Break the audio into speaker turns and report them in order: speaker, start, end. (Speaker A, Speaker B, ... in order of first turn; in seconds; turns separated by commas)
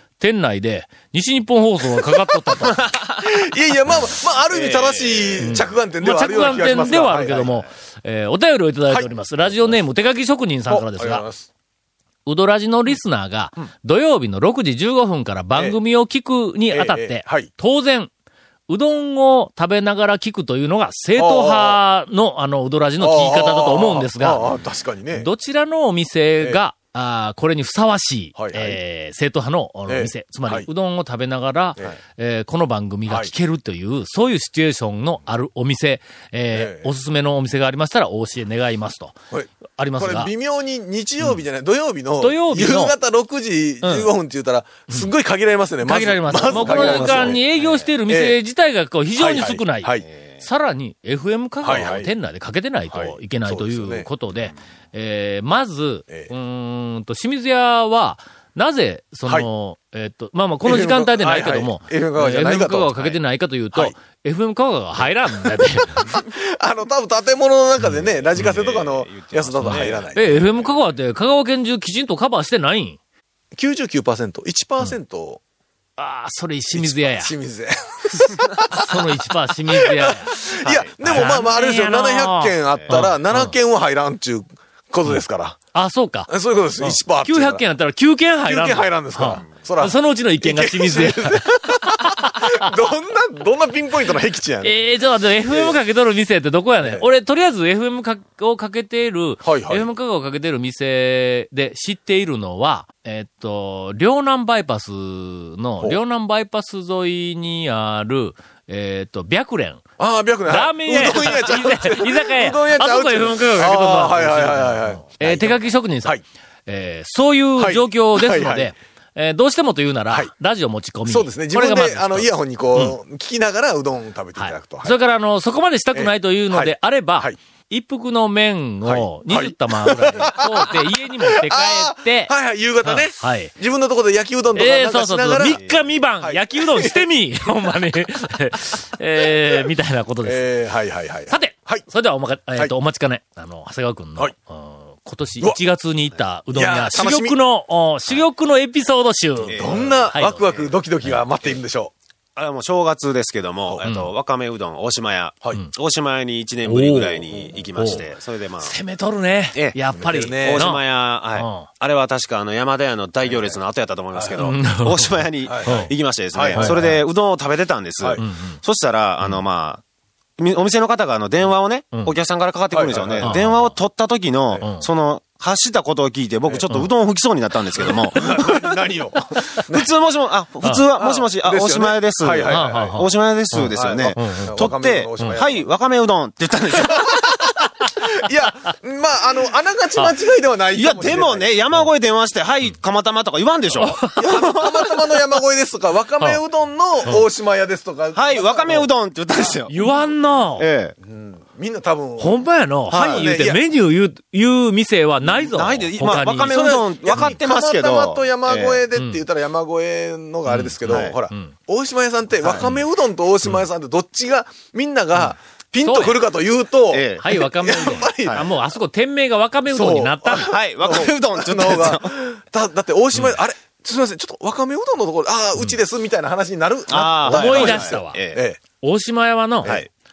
Speaker A: 0.2-2.8, Speaker B: 1.9-7.5, Speaker C: 2.8-3.2, Speaker C: 4.5-5.6, Speaker A: 5.4-11.2, Speaker C: 6.3-7.6, Speaker B: 10.7-11.5, Speaker A: 12.2-18.1, Speaker B: 16.7-17.5, Speaker A: 18.7-24.5, Speaker B: 21.2-21.8, Speaker B: 23.0-25.3, Speaker A: 25.1-39.2, Speaker B: 28.4-28.8, Speaker B: 29.9-30.7, Speaker B: 33.1-33.3, Speaker B: 36.5-36.9, Speaker B: 39.3-47.4, Speaker A: 39.7-40.3, Speaker A: 42.2-42.9, Speaker A: 43.8-44.1, Speaker A: 45.8-66.2, Speaker C: 46.5-47.9, Speaker B: 48.1-48.4, Speaker B: 49.2-50.0, Speaker C: 50.0-50.4, Speaker B: 51.6-52.1, Speaker B: 52.9-54.1, Speaker B: 60.6-63.2, Speaker B: 65.5-70.6, Speaker C: 68.3-70.1, Speaker A: 69.6-73.0, Speaker B: 73.5-75.4, Speaker A: 76.0-77.3, Speaker B: 76.7-79.1, Speaker A: 78.7-80.5, Speaker B: 79.7-85.6, Speaker C: 80.6-81.3, Speaker A: 81.0-83.5, Speaker A: 85.7-92.7, Speaker B: 86.3-87.6, Speaker B: 88.4-94.7, Speaker A: 94.6-109.8, Speaker B: 95.5-95.8, Speaker B: 99.4-99.9, Speaker B: 110.0-116.2, Speaker A: 110.5-123.0, Speaker B: 117.6-118.7, Speaker B: 121.1-125.0, Speaker A: 124.4-133.5, Speaker B: 125.9-127.4, Speaker B: 128.8-135.6, Speaker A: 134.5-140.5, Speaker B: 136.2-137.1, Speaker B: 140.2-141.9, Speaker A: 141.3-150.4, Speaker B: 146.5-147.4, Speaker C: 149.4-150.7, Speaker B: 149.5-151.9, Speaker C: 152.4-158.8, Speaker A: 153.8-154.1, Speaker A: 156.7-158.0, Speaker A: 158.6-160.8, Speaker C: 159.5-169.8, Speaker B: 159.9-160.7, Speaker A: 161.3-161.7, Speaker B: 163.2-163.6, Speaker B: 164.1-164.4, Speaker A: 164.4-165.9, Speaker B: 165.4-166.8, Speaker A: 166.5-167.0, Speaker A: 168.2-168.6, Speaker C: 170.4-178.7, Speaker B: 172.7-173.4, Speaker A: 173.2-173.7, Speaker B: 177.8-179.9, Speaker C: 179.7-187.4, Speaker B: 180.9-183.0, Speaker A: 182.5-184.6, Speaker B: 183.7-185.7, Speaker B: 186.7-191.5, Speaker C: 190.7-194.9, Speaker A: 193.8-194.2, Speaker B: 194.2-198.9, Speaker C: 198.1-199.9, Speaker A: 199.7-200.7, Speaker C: 200.6-200.9, Speaker B: 201.0-202.4, Speaker A: 202.2-207.3, Speaker C: 202.9-203.2, Speaker B: 202.9-203.6, Speaker C: 205.3-208.8, Speaker B: 206.4-218.5, Speaker A: 208.9-209.2, Speaker A: 210.5-211.5, Speaker C: 210.9-211.2, Speaker A: 212.4-212.8, Speaker A: 215.8-216.2, Speaker C: 216.9-217.4, Speaker A: 217.2-220.5, Speaker B: 219.7-228.6, Speaker C: 220.5-222.2, Speaker C: 226.9-228.4, Speaker A: 226.9-228.2, Speaker A: 228.8-229.8